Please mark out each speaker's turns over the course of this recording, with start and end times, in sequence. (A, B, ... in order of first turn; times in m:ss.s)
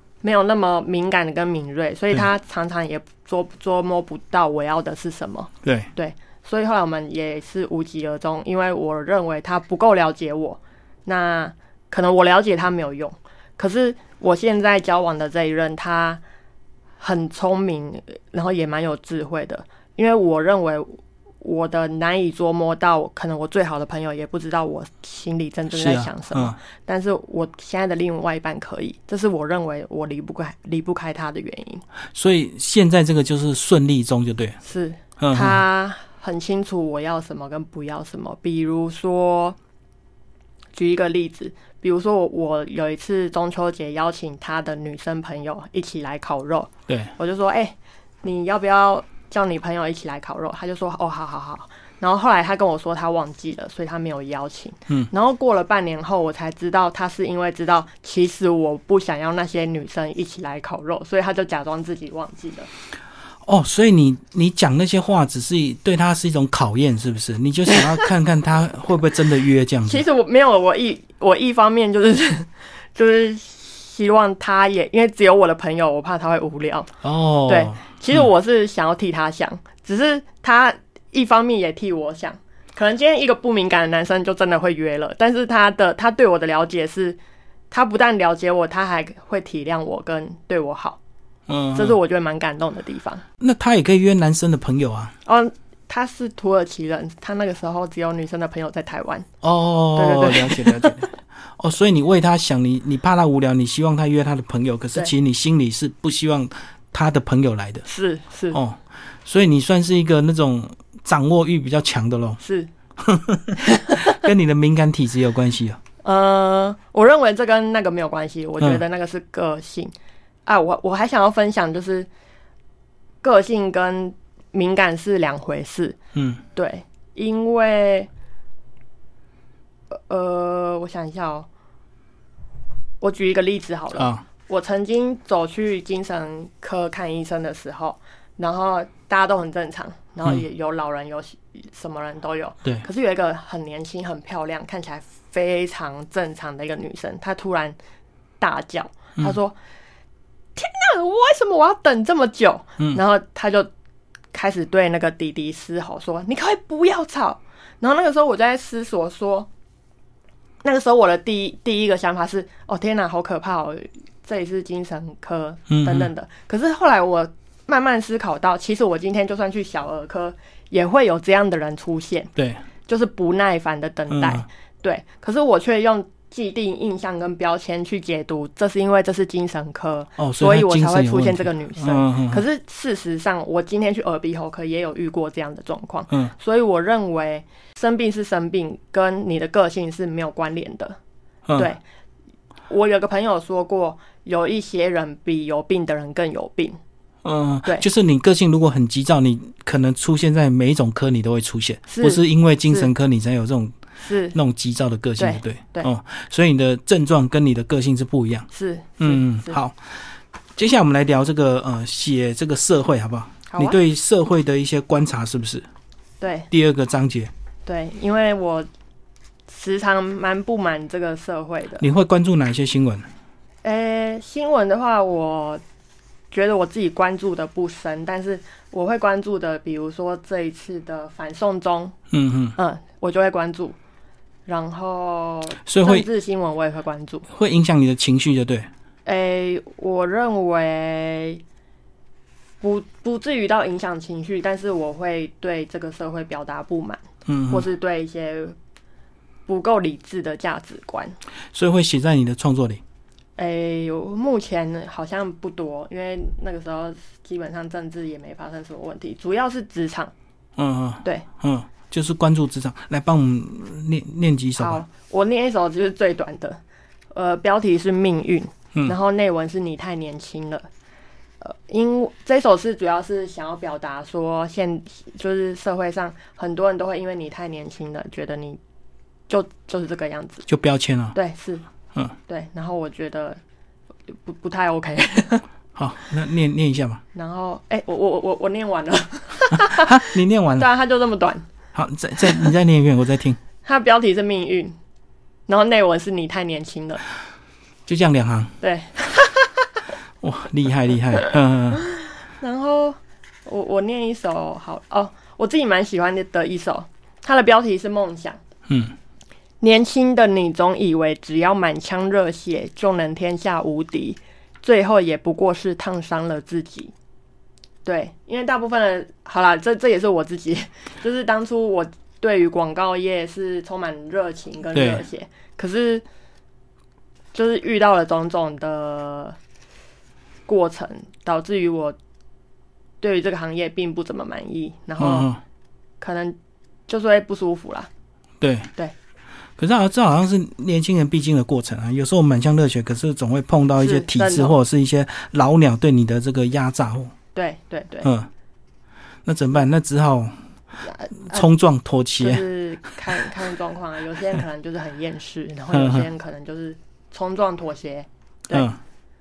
0:00.2-0:16.2 A
0:05.6-0:05.9 B
0:17.0-0:31.8 A
0:25.7-0:26.6 B
0:32.1-0:34.6 B
0:34.6-0:39.6 A
0:35.2-0:35.6 B
0:40.7-1:02.7 A
0:46.9-0:47.1 B
1:03.4-1:10.0 B
1:09.9-1:16.9 A
1:17.0-1:18.2 B
1:17.5-1:27.2 A
1:27.7-1:31.0 A
1:31.5-1:32.0 B
1:31.7-1:33.2 A
1:33.4-1:35.2 B
1:35.3-1:39.3 A
1:39.4-1:47.9 B
1:40.0-1:41.1 A
1:47.9-1:48.6 A
1:48.5-1:52.4 B
1:52.4-1:52.7 A
1:53.0-1:55.8 B
1:53.6-1:54.3 A
1:56.0-1:59.9 A
2:00.5-2:02.1 A
2:03.2-2:06.0 A
2:06.2-2:06.4 B
2:06.6-2:08.1 A
2:09.9-2:11.5 A
2:13.0-2:27.8 A
2:14.0-2:14.2 B
2:28.4-2:29.6 A
2:30.6-2:33.7 A
2:34.3-2:39.5 A
2:40.6-2:52.3 A
2:45.7-2:46.1 B
2:52.4-2:52.6 B
2:52.9-3:11.0 A
2:54.1-2:54.5 B
3:00.2-3:02.4 B
3:11.5-3:11.7 B
3:11.6-3:11.8 A
3:12.7-3:16.8 A
3:17.2-3:23.8 B
3:21.9-3:22.9 A
3:24.0-3:24.4 A
3:24.3-3:28.5 B
3:25.2-3:25.9 A
3:28.5-3:29.6 A
3:29.0-3:30.0 B
3:30.6-3:35.7 B
3:33.5-3:33.8 A
3:36.2-3:36.5 A
3:36.5-3:37.3 B
3:37.7-3:38.7 A
3:39.5-3:41.8 A
3:41.8-3:43.1 B
3:43.6-3:45.6 A
3:46.3-3:52.0 A
3:52.1-3:52.6 B
3:52.6-3:53.8 A
3:54.5-3:57.3 A
3:55.6-3:56.1 B
3:57.3-3:58.7 B
3:59.1-4:01.4 A
4:02.6-4:08.6 A
4:07.3-4:07.6 B
4:09.5-4:11.2 A
4:11.5-4:12.8 B
4:13.4-4:20.1 A
4:20.6-4:24.8 B
4:24.6-4:26.6 A
4:27.1-4:30.7 A
4:31.4-4:38.6 A
4:39.3-4:40.5 A
4:40.5-4:41.2 B
4:41.1-4:41.6 A
4:42.3-4:43.4 A
4:44.1-4:45.4 A
4:45.8-4:47.0 B
4:47.1-4:51.5 A
4:49.6-4:50.7 B
4:51.7-4:53.4 B
4:52.2-4:52.5 A
4:53.6-4:54.8 A
4:55.5-4:57.0 A
4:57.9-4:58.5 B
4:58.6-4:59.8 A
5:00.2-5:01.8 B
5:01.2-5:08.4 A
5:08.7-5:09.0 B
5:09.6-5:16.9 A
5:17.8-5:26.0 A
5:24.7-5:25.0 B
5:27.3-5:29.4 A
5:30.5-5:32.0 A
5:33.0-5:35.3 A
5:35.0-5:35.4 B
5:36.0-5:36.4 A
5:36.9-5:37.9 A
5:38.4-5:38.7 B
5:39.6-5:47.1 B
5:43.8-5:44.6 A
5:47.4-5:48.1 A
5:48.0-5:48.3 B
5:49.2-5:50.4 B
5:50.8-5:51.5 A
5:51.2-5:52.4 B
5:52.2-5:58.7 A
5:55.7-5:56.1 B
5:58.5-5:58.8 B